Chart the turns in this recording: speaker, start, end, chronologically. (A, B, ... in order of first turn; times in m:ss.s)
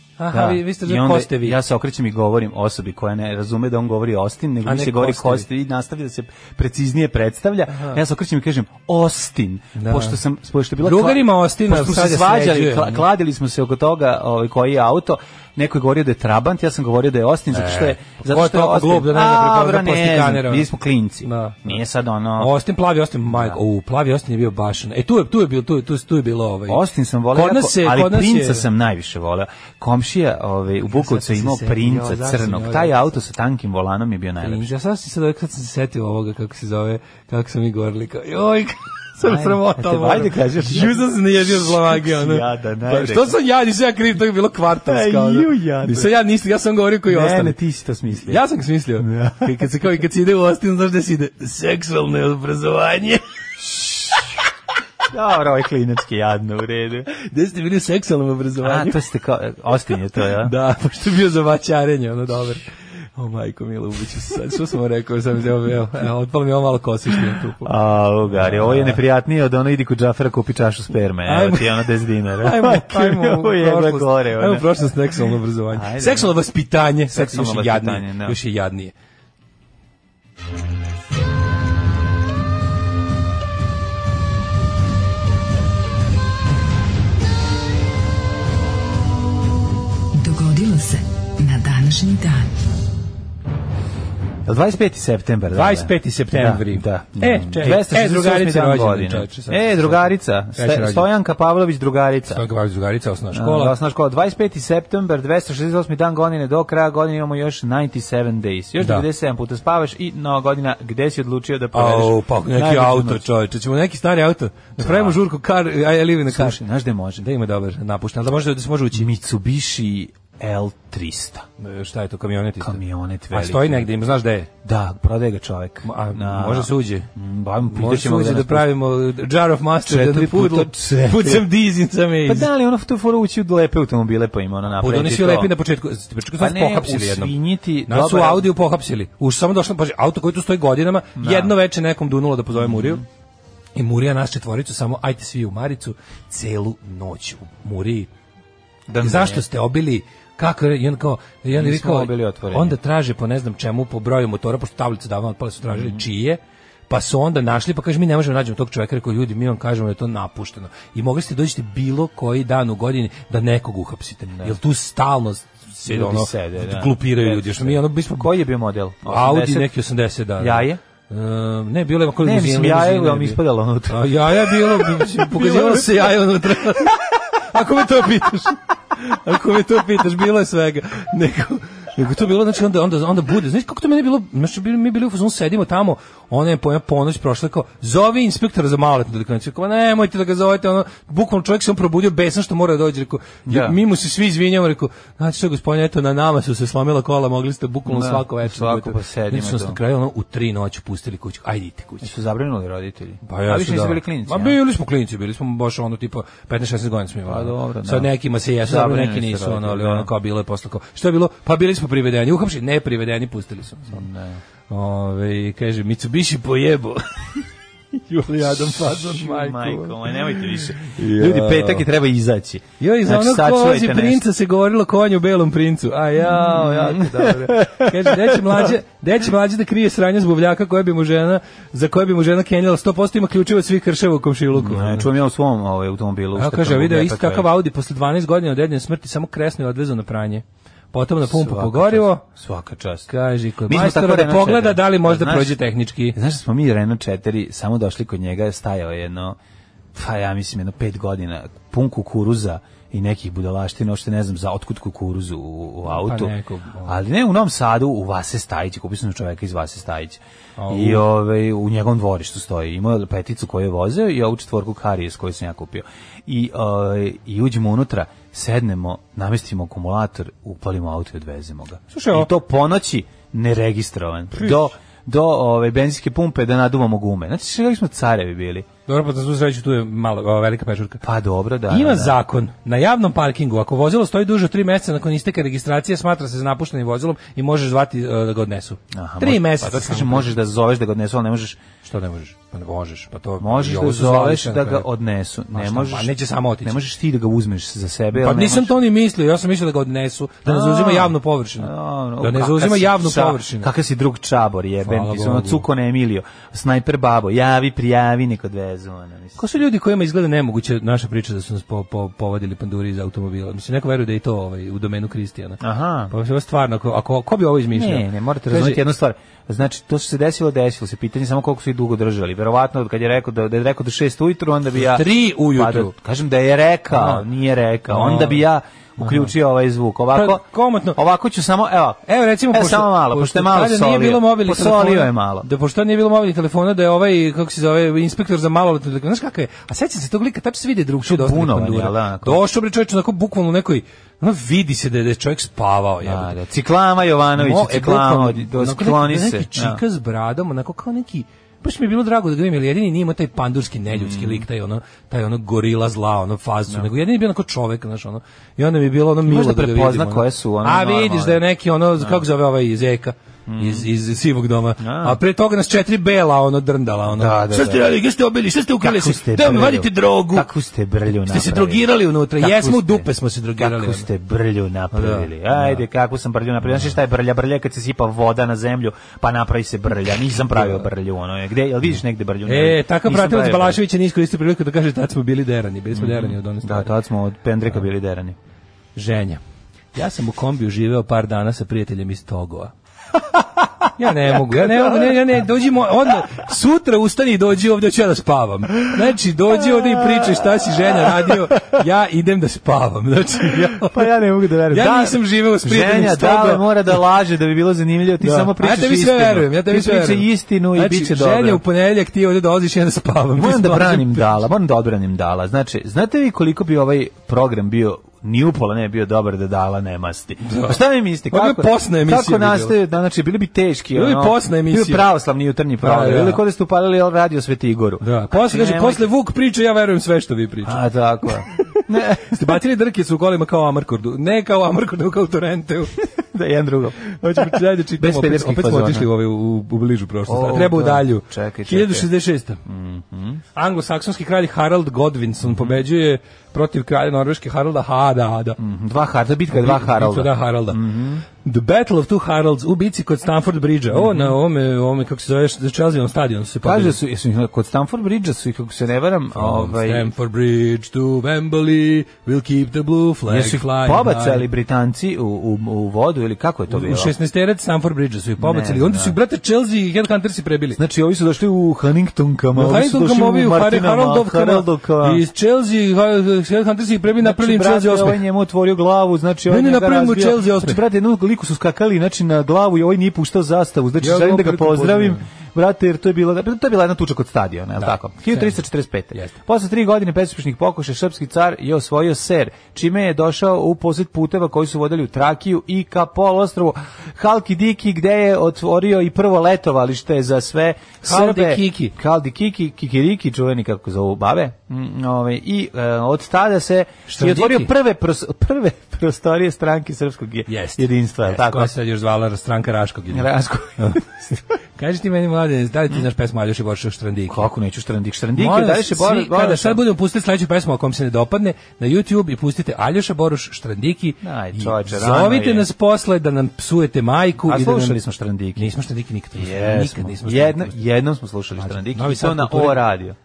0:00.2-0:01.6 A
0:00.3-0:22.5 B
0:04.6-0:05.5 A
0:07.7-0:08.0 A
0:09.8-0:10.2 A
0:10.8-0:13.0 A
0:17.5-0:20.7 A
0:21.2-0:21.8 A
0:22.4-0:26.8 A
0:23.3-0:23.6 B
0:26.7-0:34.7 B
0:27.3-0:28.7 A
0:30.9-0:33.0 A
0:34.4-0:47.6 A
0:39.2-0:43.4 B
0:44.8-0:46.1 B
0:47.1-0:48.4 B
0:48.2-0:53.2 A
0:49.0-0:49.6 B
0:55.1-0:57.1 B
0:57.1-0:59.0 A
0:58.6-1:00.5 B
1:00.4-1:02.6 A
1:03.2-1:07.7 A
1:07.6-1:14.7 B
1:08.3-1:09.0 A
1:11.3-1:11.9 A
1:12.4-1:18.9 A
1:15.7-1:16.4 B
1:17.1-1:18.4 B
1:30.2-1:32.5 C
1:34.5-1:42.4 B
1:35.5-1:41.1 A
1:42.3-1:43.8 A
1:43.3-1:53.3 B
1:48.8-1:49.0 A
1:51.7-1:56.6 A
1:54.8-1:55.2 B
1:56.3-1:57.2 B
1:57.2-1:59.1 A
1:58.9-2:01.4 B
2:01.6-2:02.8 A
2:02.6-2:03.9 B
2:03.3-2:04.5 A
2:04.6-2:08.7 B
2:05.8-2:07.1 A
2:07.7-2:12.5 A
2:09.8-2:11.5 B
2:12.3-2:15.5 B
2:14.8-2:17.3 A
2:16.4-2:18.5 B
2:17.9-2:23.0 A
2:21.2-2:21.5 B
2:22.6-2:23.0 B
2:23.8-2:28.1 A
2:28.9-2:29.4 B
2:29.0-2:48.3 A
2:31.5-2:32.8 B
2:35.7-2:36.0 B
2:44.3-2:44.6 B
2:45.9-2:49.7 B
2:49.1-3:22.1 A
2:50.4-2:50.8 B
2:52.2-2:56.1 B
3:13.5-3:13.8 B
3:17.9-3:19.8 B
3:22.0-3:24.6 B
3:23.3-3:34.1 A
3:27.3-3:30.1 B
3:33.9-3:34.4 B
3:34.7-3:37.4 A
3:38.0-3:41.9 A
3:38.7-3:44.2 B
3:42.8-3:55.1 A
3:46.2-3:48.7 B
3:54.5-3:57.5 B
3:56.4-4:02.2 A
4:01.3-4:03.1 B
4:03.1-4:06.2 A
4:03.6-4:09.4 B
4:09.9-4:16.3 B
4:15.8-4:17.0 A
4:16.9-4:38.7 B
4:20.6-4:21.1 A
4:31.9-4:32.3 A
4:34.4-4:34.7 A
4:38.9-4:41.0 A
4:41.0-4:42.2 B
4:41.7-4:50.4 A
4:48.9-4:51.6 B
4:51.8-4:54.9 A
4:53.4-4:58.7 B
4:55.5-4:56.8 A
4:58.1-5:03.7 A
5:00.4-5:09.4 B
5:04.8-5:05.6 A
5:09.4-5:18.8 A
5:15.6-5:16.1 B
5:17.7-5:35.5 B
5:24.8-5:25.9 A
5:26.9-5:27.2 A
5:27.9-5:28.5 A
5:29.0-5:29.3 A
5:30.1-5:31.0 A
5:32.1-5:46.3 A
5:41.0-5:42.4 B
5:46.0-5:49.8 B
5:47.4-6:10.5 A
5:53.9-5:54.5 B
5:59.2-6:01.4 B
6:02.0-6:02.2 B
6:03.5-6:03.9 B
6:04.8-6:05.2 B
6:07.1-6:07.9 B
6:08.8-6:11.8 B
6:11.2-6:14.1 A
6:12.4-6:23.8 B
6:14.9-6:15.8 A
6:20.5-6:20.9 A
6:22.5-6:26.9 A
6:25.9-6:28.4 B
6:29.0-6:29.4 A
6:29.9-6:32.7 A
6:34.0-6:44.1 A
6:34.5-6:35.2 B
6:39.6-6:41.8 B
6:43.5-6:51.6 B
6:44.7-6:46.7 A
6:48.2-6:54.2 A
6:53.4-7:09.1 B
7:00.5-7:00.8 A
7:01.3-7:02.8 A
7:03.9-7:05.1 A
7:05.8-7:06.4 A
7:08.0-7:15.9 A
7:10.6-7:12.6 B
7:16.0-7:19.1 B
7:17.2-7:22.6 A
7:20.3-7:22.1 B
7:22.6-7:23.4 B
7:23.6-7:28.6 A
7:25.4-7:25.8 B
7:28.6-7:31.2 B
7:29.5-7:30.8 A
7:31.4-7:37.0 A
7:33.9-7:34.3 B
7:36.6-7:40.1 B
7:39.4-7:44.5 A
7:43.3-7:47.1 B
7:46.7-7:50.8 A
7:48.4-7:49.2 B
7:50.8-7:55.2 B
7:52.6-7:58.2 A
7:57.2-8:31.7 B
7:59.5-8:00.8 A
8:04.0-8:05.2 A
8:07.8-8:08.6 A
8:21.0-8:21.9 A
8:27.1-8:27.7 A
8:30.5-8:34.0 A
8:33.1-8:34.4 B
8:34.8-8:37.5 A
8:37.3-8:39.8 B
8:38.4-8:48.0 A
8:44.2-8:45.7 B
8:47.4-8:48.7 B
8:48.6-8:50.8 A
8:49.4-8:53.2 B
8:51.6-8:52.8 A